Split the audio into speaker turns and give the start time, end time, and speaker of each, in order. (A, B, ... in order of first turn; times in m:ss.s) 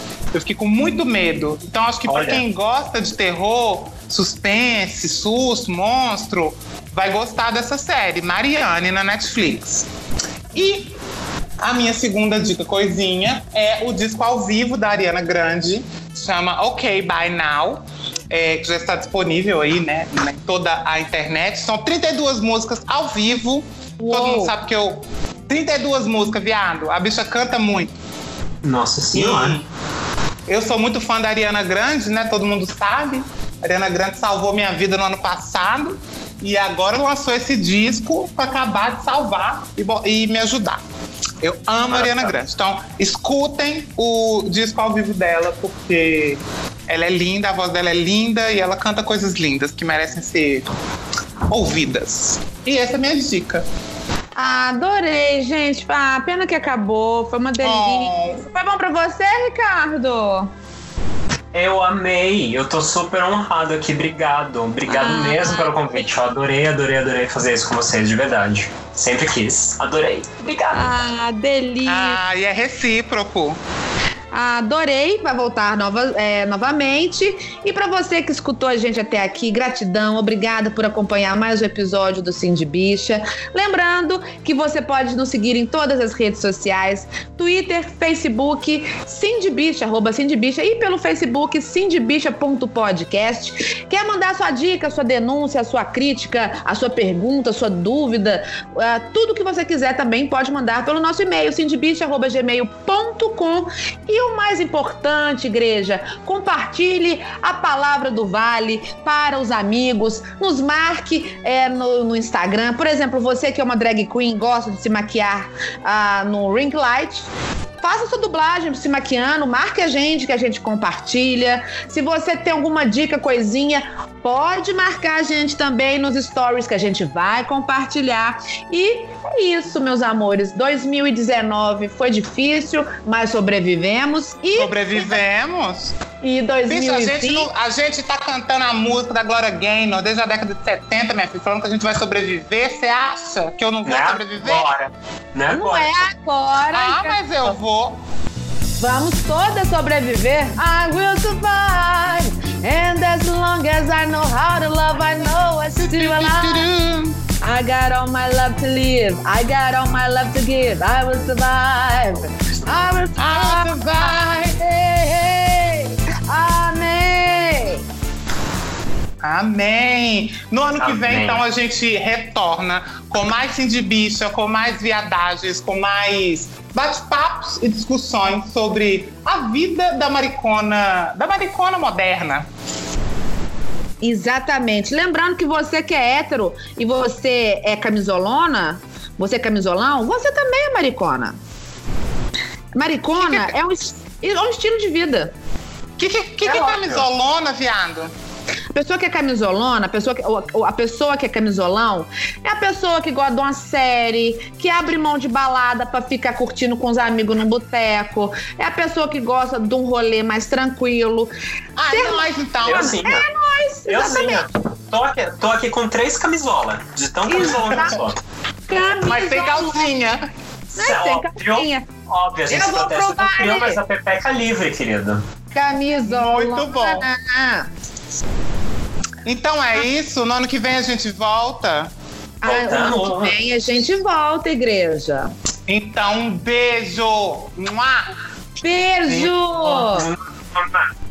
0:00.3-0:09.9 A
0:02.1-0:02.4 B
0:10.5-0:11.0 A
0:11.6-0:27.9 A
0:24.0-0:24.5 C
0:28.6-0:29.6 B
0:29.1-0:29.7 A
0:30.5-0:40.8 A
0:41.4-0:50.7 A
0:41.9-0:42.4 B
0:51.5-0:53.6 A
0:54.4-1:00.5 C
0:57.6-0:58.4 A
1:01.5-1:11.0 B
1:04.9-1:05.7 C
1:10.7-1:12.2 C
1:11.9-1:13.6 A
1:14.3-1:57.3 C
1:57.8-2:15.2 C
2:14.6-2:16.0 A
2:16.2-2:17.5 C
2:16.7-2:24.7 A
2:23.8-2:26.1 B
2:25.6-2:27.6 C
2:26.7-2:28.0 A
2:28.8-2:36.7 C
2:35.8-2:37.2 A
2:37.4-2:47.8 C
2:43.2-2:44.5 A
2:49.2-3:02.5 A
2:50.8-2:51.4 B
3:04.0-3:11.4 C
3:12.8-3:15.3 C
3:13.2-3:13.5 A
3:16.0-3:18.1 A
3:16.5-3:16.8 C
3:18.7-3:31.3 C
3:31.8-3:32.9 A
3:31.9-3:34.5 C
3:32.6-3:33.2 B
3:33.9-3:38.2 B
3:37.3-3:38.0 C
3:38.7-3:39.9 C
3:38.8-3:40.2 A
3:40.7-3:45.2 B
3:40.8-3:41.9 C
3:42.5-3:43.8 C
3:45.5-3:47.7 C
3:46.0-3:47.1 A
3:49.2-3:51.9 A
3:52.4-3:55.3 C
3:52.4-3:53.4 B
3:55.7-3:58.1 A
3:58.6-4:00.1 C
3:59.6-4:00.9 B